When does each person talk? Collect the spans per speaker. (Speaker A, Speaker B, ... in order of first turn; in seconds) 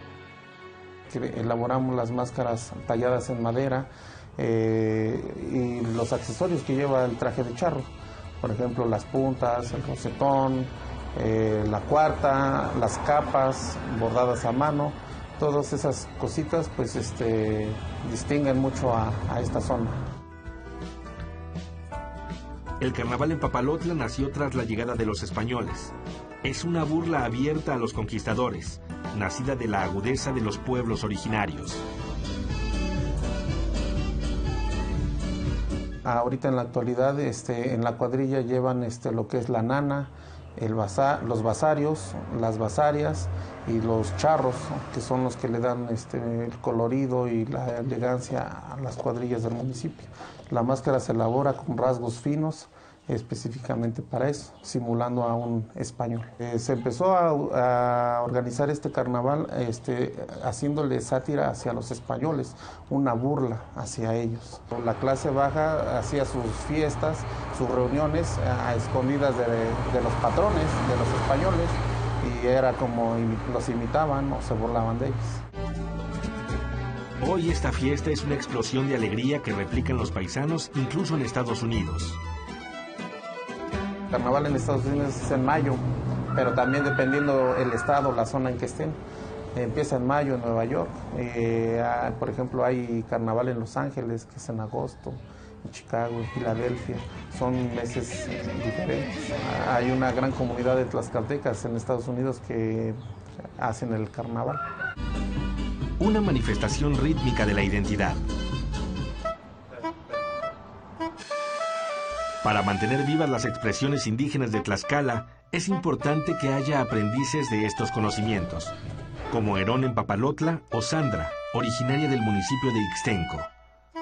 Speaker A: 1.1-20.0, 36.0-75.4, 84.1-89.0, 89.5-104.6
Speaker B: 22.8-31.8, 77.2-82.2, 106.0-108.2, 112.4-118.7, 119.3-123.5